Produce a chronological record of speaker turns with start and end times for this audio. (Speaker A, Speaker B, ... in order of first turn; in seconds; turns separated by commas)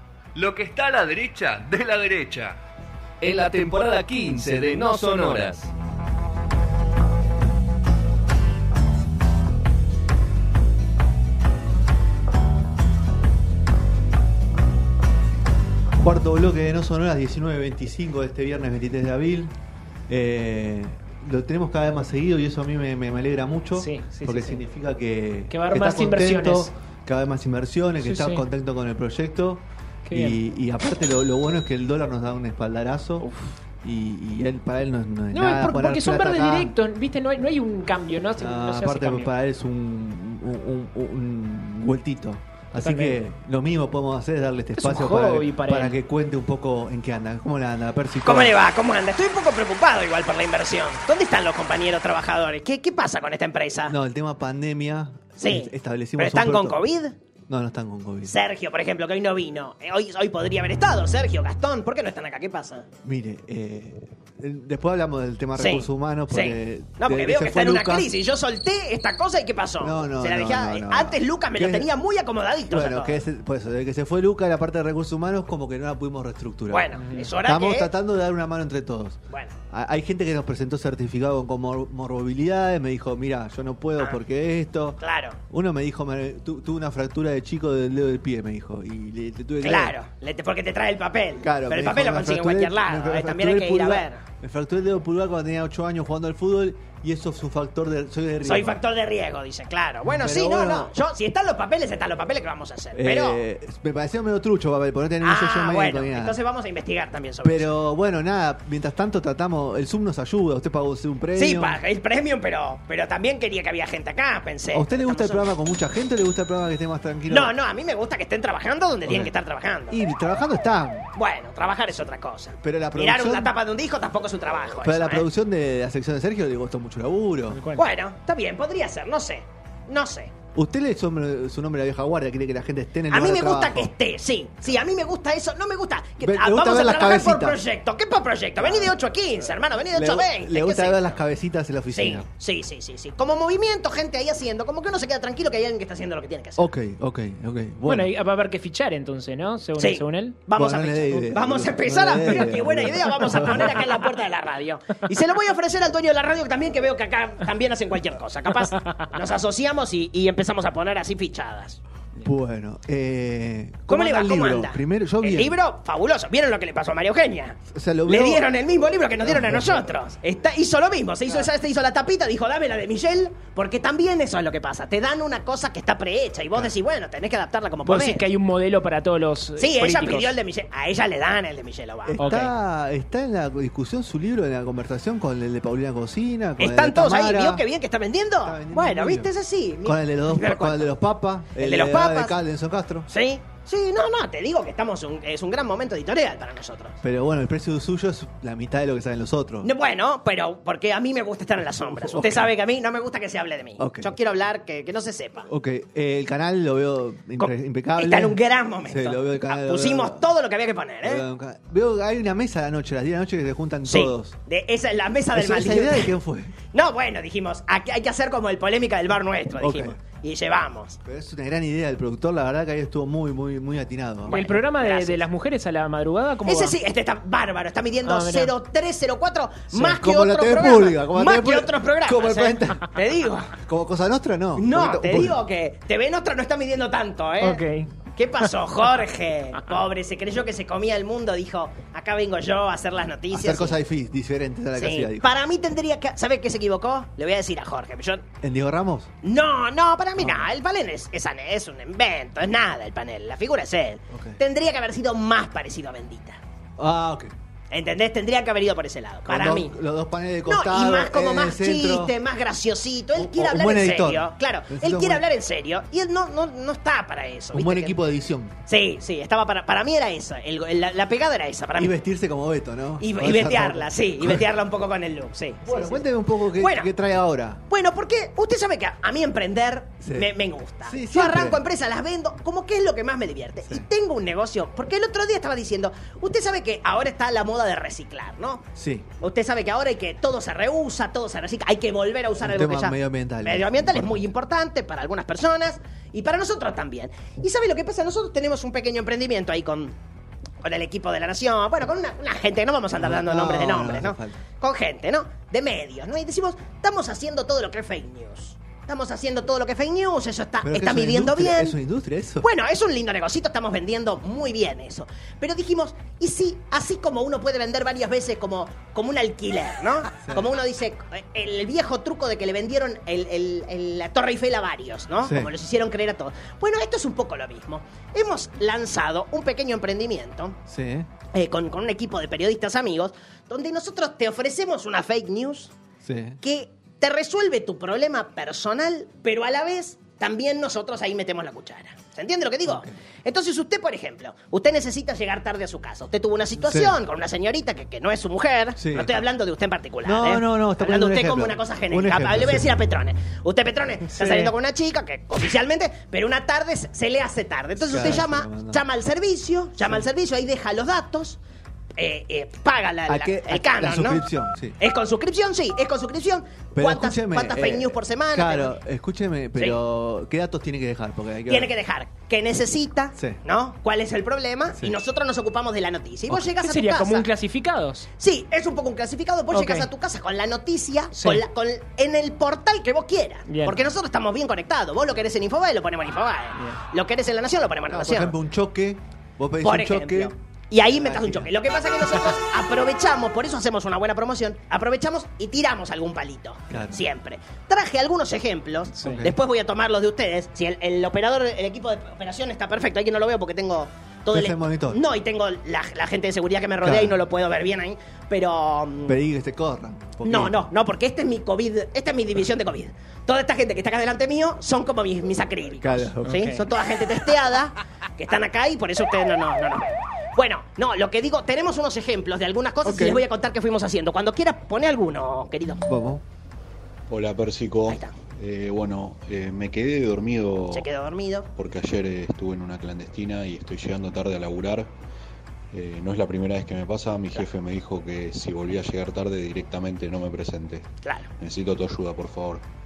Speaker A: 0.3-2.6, Speaker A: 3.2-5.7, Speaker B: 16.0-19.5, Speaker B: 20.1-33.3, Speaker C: 23.7-24.6, Speaker C: 25.5-26.7, Speaker C: 28.0-28.4, Speaker C: 30.1-30.4, Speaker C: 33.2-33.5, Speaker B: 33.8-36.7, Speaker C: 35.3-39.3, Speaker B: 38.4-48.6, Speaker C: 42.8-43.2, Speaker C: 44.8-46.0, Speaker D: 48.2-54.0, Speaker B: 53.9-56.8, Speaker D: 55.4-57.2, Speaker B: 57.5-58.3, Speaker D: 58.2-62.9, Speaker B: 63.0-68.1, Speaker D: 65.5-73.2, Speaker B: 69.8-71.9, Speaker B: 72.7-79.2, Speaker D: 76.7-77.9, Speaker C: 77.0-77.3, Speaker D: 79.3-79.5, Speaker B: 79.7-90.0, Speaker D: 85.0-85.4, Speaker D: 89.6-94.2, Speaker B: 91.4-98.8, Speaker D: 98.4-103.4, Speaker B: 100.0-100.9, Speaker B: 102.9-106.4, Speaker D: 105.2-107.7, Speaker B: 107.4-111.8, Speaker D: 111.3-115.5, Speaker B: 114.7-117.5, Speaker D: 117.3-120.0, Speaker B: 119.0-119.3, Speaker B: 119.9-121.1, Speaker D: 121.1-125.3, Speaker B: 122.6-123.5, Speaker B: 124.8-127.6, Speaker C: 127.5-127.8, Speaker D: 127.8-130.3, Speaker B: 130.5-133.9, Speaker D: 133.1-141.2, Speaker B: 136.2-137.6, Speaker B: 138.6-142.2, Speaker D: 141.9-146.6, Speaker B: 146.6-148.1, Speaker C: 147.8-150.4, Speaker D: 149.8-161.8, Speaker B: 150.6-153.8, Speaker C: 158.7-159.0, Speaker B: 162.2-165.6, Speaker D: 163.9-178.2, Speaker B: 167.7-168.5, Speaker B: 169.2-169.9, Speaker C: 177.8-180.3, Speaker D: 179.6-182.2, Speaker B: 182.0-187.6, Speaker C: 182.2-182.5, Speaker D: 186.6-190.9, Speaker B: 188.4-189.3, Speaker B: 189.8-193.1, Speaker D: 191.5-192.4, Speaker D: 193.1-197.0, Speaker B: 197.0-199.7, Speaker D: 199.6-205.5, Speaker B: 201.8-202.5, Speaker B: 203.8-204.1, Speaker B: 205.5-210.2, Speaker D: 207.4-211.2, Speaker B: 211.0-214.3, Speaker D: 213.8-216.1, Speaker B: 215.3-216.5, Speaker D: 216.7-221.0, Speaker B: 219.6-220.0, Speaker B: 221.1-224.4, Speaker D: 224.2-225.2, Speaker C: 224.3-226.7, Speaker D: 226.4-233.5, Speaker C: 228.0-228.5, Speaker B: 229.7-232.9, Speaker B: 233.6-235.4, Speaker D: 234.6-237.6, Speaker C: 237.4-237.9, Speaker D: 238.1-243.8, Speaker B: 243.3-245.3, Speaker D: 244.7-248.2, Speaker B: 248.4-249.1, Speaker D: 249.2-256.4, Speaker B: 250.2-250.5, Speaker B: 254.1-254.4, Speaker B: 256.8-257.3, Speaker D: 257.7-259.8, Speaker B: 259.3-262.1, Speaker D: 260.4-268.0, Speaker B: 263.1-265.2, Speaker B: 267.5-268.5, Speaker D: 268.6-271.9, Speaker B: 271.8-274.5, Speaker D: 273.0-276.9, Speaker B: 275.6-277.6, Speaker D: 277.7-288.6, Speaker B: 280.0-281.6, Speaker B: 288.8-289.1, Speaker D: 289.2-300.0, Speaker B: 292.4-294.3, Speaker D: 300.6-311.8, Speaker B: 303.0-304.4, Speaker B: 310.6-312.5, Speaker D: 312.4-330.6, Speaker B: 320.2-320.5, Speaker B: 325.2-325.5, Speaker B: 330.7-331.1, Speaker D: 331.3-335.7, Speaker B: 336.0-336.4, Speaker D: 336.4-361.4, Speaker B: 346.6-347.0, Speaker B: 348.8-349.2, Speaker B: 350.0-352.8, Speaker B: 354.2-354.5, Speaker B: 357.8-358.8, Speaker D: 361.9-364.2, Speaker B: 363.1-364.8, Speaker D: 364.8-368.8, Speaker B: 366.7-371.8, Speaker D: 371.4-377.3, Speaker B: 373.1-373.4, Speaker C: 376.3-378.1, Speaker D: 378.2-388.3, Speaker C: 379.5-379.9, Speaker C: 381.1-381.4, Speaker C: 383.5-383.8, Speaker B: 387.9-390.3, Speaker D: 389.6-409.2, Speaker B: 390.9-391.5, Speaker B: 396.7-397.0, Speaker B: 399.1-399.4, Speaker B: 404.3-405.0, Speaker B: 406.8-407.2, Speaker B: 409.1-410.6, Speaker D: 410.2-425.8, Speaker B: 415.8-416.4, Speaker C: 416.2-416.6, Speaker B: 422.8-423.2, Speaker B: 425.9-426.2, Speaker E: 427.1-430.9, Speaker D: 427.9-428.1, Speaker D: 430.7-431.5, Speaker E: 431.6-434.9, Speaker E: 435.7-440.9, Speaker D: 441.0-441.3, Speaker E: 441.4-442.6